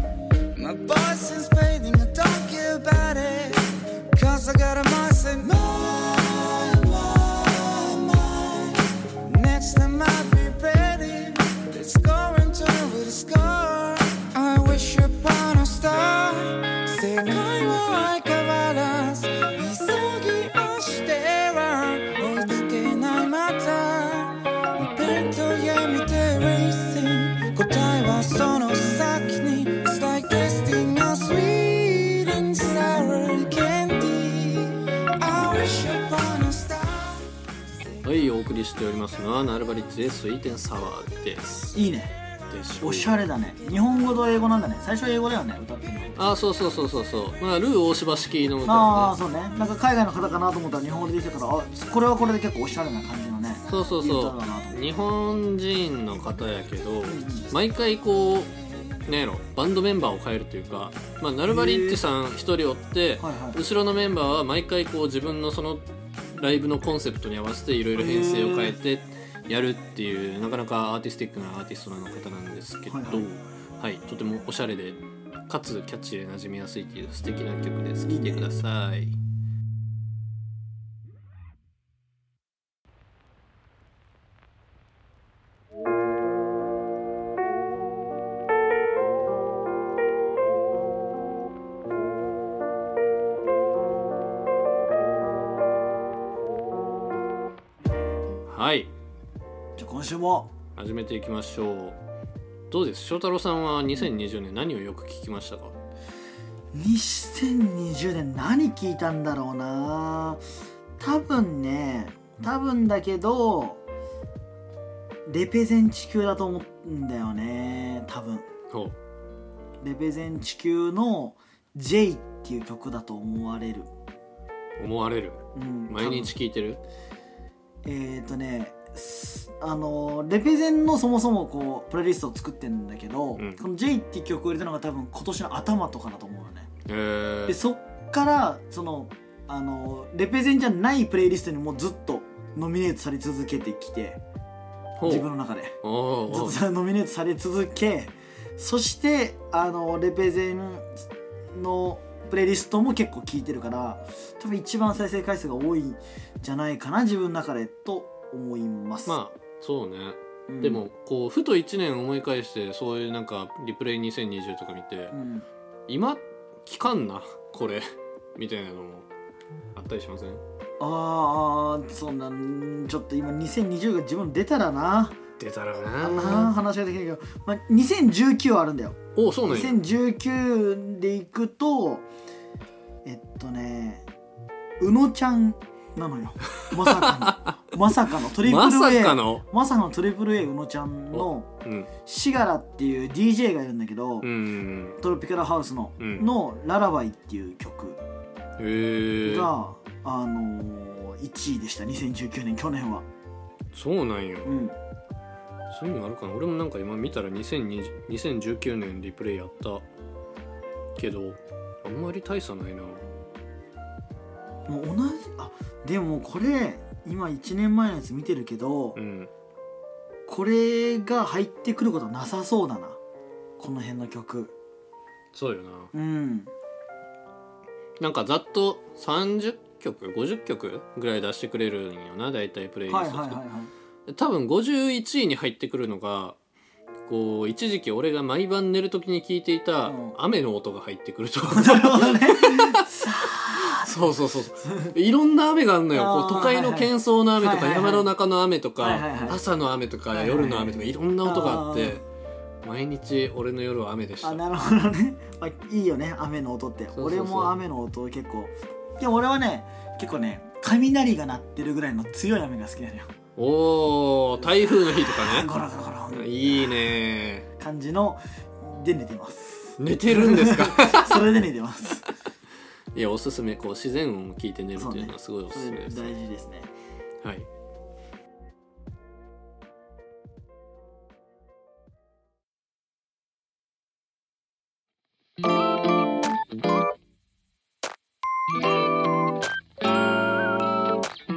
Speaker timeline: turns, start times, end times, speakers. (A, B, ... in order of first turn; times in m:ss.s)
0:00.6-0:37.3 A
0:38.0-0:41.8 B
0:41.7-0:42.1 C
0:42.5-0:43.3 B
0:42.8-0:46.4 C
0:46.2-0:49.1 B
0:48.6-0:54.9 C
0:53.7-0:58.5 B
0:57.1-0:57.5 C
0:59.1-1:19.2 B
1:01.5-1:02.0 C
1:03.2-1:03.6 C
1:08.0-1:08.8 C
1:12.9-1:13.4 C
1:18.1-1:18.5 C
1:38.5-1:38.9 B
1:39.8-1:40.5 C
1:40.8-1:42.0 B
1:42.7-1:45.8 B
1:46.7-1:50.4 C
1:51.0-1:53.8 C
1:55.3-1:58.5 C
1:58.7-1:59.0 B
1:59.8-2:03.9 C
2:04.8-2:06.8 B
2:05.6-2:06.4 C
2:07.8-2:16.7 C
2:13.4-2:13.6 B
2:16.9-2:17.6 B
2:17.5-2:24.2 C
2:25.0-2:25.3 B
2:25.0-2:25.8 C
2:25.8-2:26.6 B
2:26.3-2:31.0 C
2:31.5-2:39.2 C
2:39.1-2:45.2 B
2:40.5-2:40.8 C
2:45.1-2:45.5 C
2:45.9-2:49.1 B
2:49.8-2:50.4 B
2:50.8-2:55.2 C
2:55.4-2:56.6 B
2:56.0-3:02.1 C
2:59.2-2:59.8 B
3:03.0-3:04.0 C
3:04.8-3:11.5 C
3:06.6-3:07.8 B
3:08.3-3:09.4 B
3:11.1-3:11.9 B
3:12.1-3:14.3 C
3:14.2-3:15.0 B
3:15.0-3:18.0 C
3:16.0-3:16.3 B
3:18.6-3:19.5 B
3:19.2-3:23.1 C
3:23.7-3:24.6 B
3:24.4-3:24.8 C
3:25.7-3:29.9 B
3:31.0-3:33.1 B
3:34.7-3:39.0 C
3:39.0-3:39.3 B
3:40.3-3:43.0 C
3:43.6-3:44.5 C
3:45.3-3:45.9 B
3:45.9-3:46.5 C
3:48.0-3:53.4 B
3:52.9-3:53.7 C
3:54.1-3:56.4 B
3:57.1-4:02.9 B
3:59.8-4:00.2 C
4:01.5-4:04.1 C
4:03.6-4:12.0 B
4:04.6-4:04.9 C
4:05.9-4:08.1 C
4:08.8-4:09.4 C
4:10.1-4:12.0 C
4:12.6-4:14.4 B
4:14.2-4:23.1 C
4:17.0-4:17.6 B
4:23.4-4:25.5 B
4:24.5-4:26.9 C
4:26.1-4:27.5 B
4:27.6-4:32.0 C
4:29.8-4:31.4 B
4:32.9-4:36.2 B
4:34.8-4:36.7 C
4:37.2-4:37.5 B